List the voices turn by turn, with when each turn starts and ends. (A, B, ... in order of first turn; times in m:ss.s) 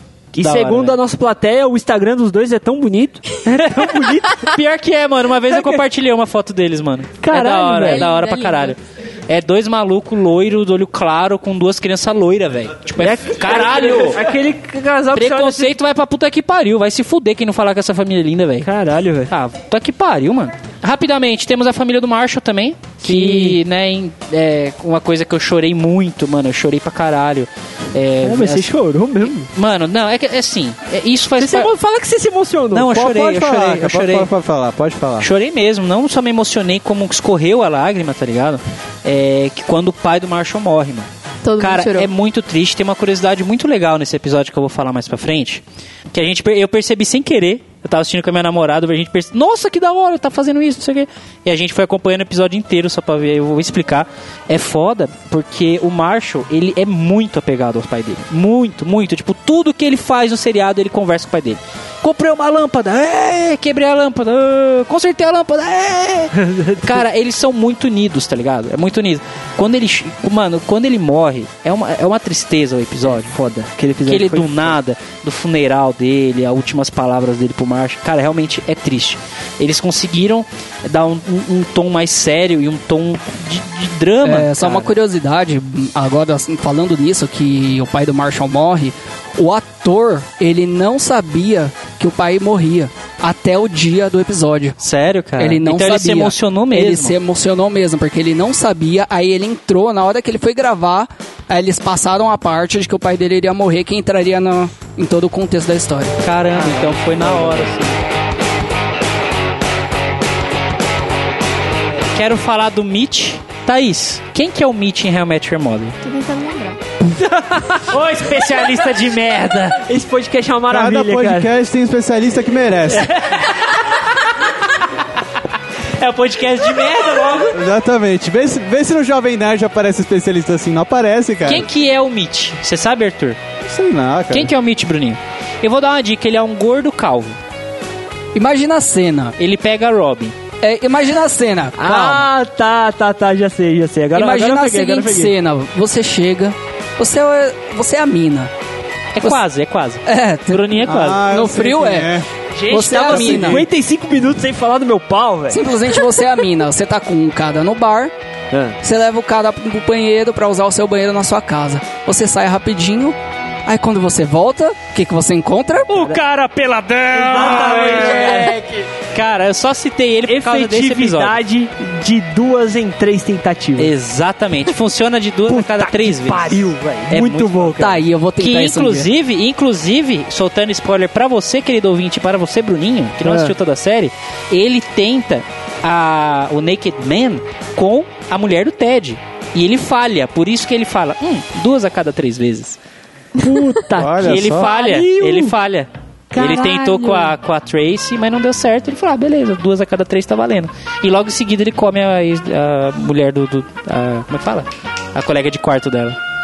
0:00.3-0:04.6 A
0:00.4-0:01.0 B
0:03.6-0:14.3 B
0:05.5-0:05.8 A
0:07.2-0:08.1 A
0:07.8-0:08.8 C
0:13.0-0:15.7 A
0:15.1-0:18.7 B
0:18.6-0:19.3 A
0:19.3-0:28.7 B
0:23.0-0:23.6 A
0:28.2-0:29.5 A
0:29.5-0:31.7 B
0:31.4-0:33.3 A
0:32.7-0:34.3 B
0:33.1-0:35.3 D
0:35.2-0:41.1 B
0:41.4-0:42.1 C
0:41.6-1:13.3 B
1:06.4-1:06.8 A
1:13.1-1:14.8 A
1:14.0-1:24.9 B
1:24.2-1:34.8 E
1:34.8-1:37.2 B
1:35.4-1:46.2 E
1:46.2-1:48.0 B
1:46.8-1:47.7 A
1:52.1-1:56.0 B
1:56.0-1:56.8 C
1:57.1-1:57.8 A
1:57.8-1:59.8 B
1:59.8-2:01.5 A
2:00.7-2:03.1 D
2:02.9-2:04.5 B
2:06.0-2:07.6 B
2:07.5-2:11.7 D
2:11.5-2:13.4 B
2:13.6-2:14.5 D
2:14.3-2:17.4 B
2:18.3-2:19.4 E
2:19.4-2:20.4 B
2:20.6-2:22.2 E
2:21.8-2:25.3 A
2:24.2-2:28.5 E
2:29.2-2:31.2 B
2:30.1-2:33.6 E
2:30.8-2:32.3 D
2:32.6-2:35.6 A
2:33.2-2:33.5 B
2:35.5-2:38.1 E
2:38.5-2:38.8 A
2:38.8-2:46.0 E
2:45.9-2:48.6 B
2:47.1-2:48.6 A
2:47.6-2:48.5 E
2:49.1-2:51.4 B
2:50.3-2:53.9 A
2:53.8-3:12.8 B
2:55.5-2:57.9 A
2:57.8-2:59.1 E
3:03.2-3:03.5 A
3:13.4-3:15.5 A
3:14.0-3:14.7 D
3:14.2-3:26.2 B
3:16.3-3:17.3 A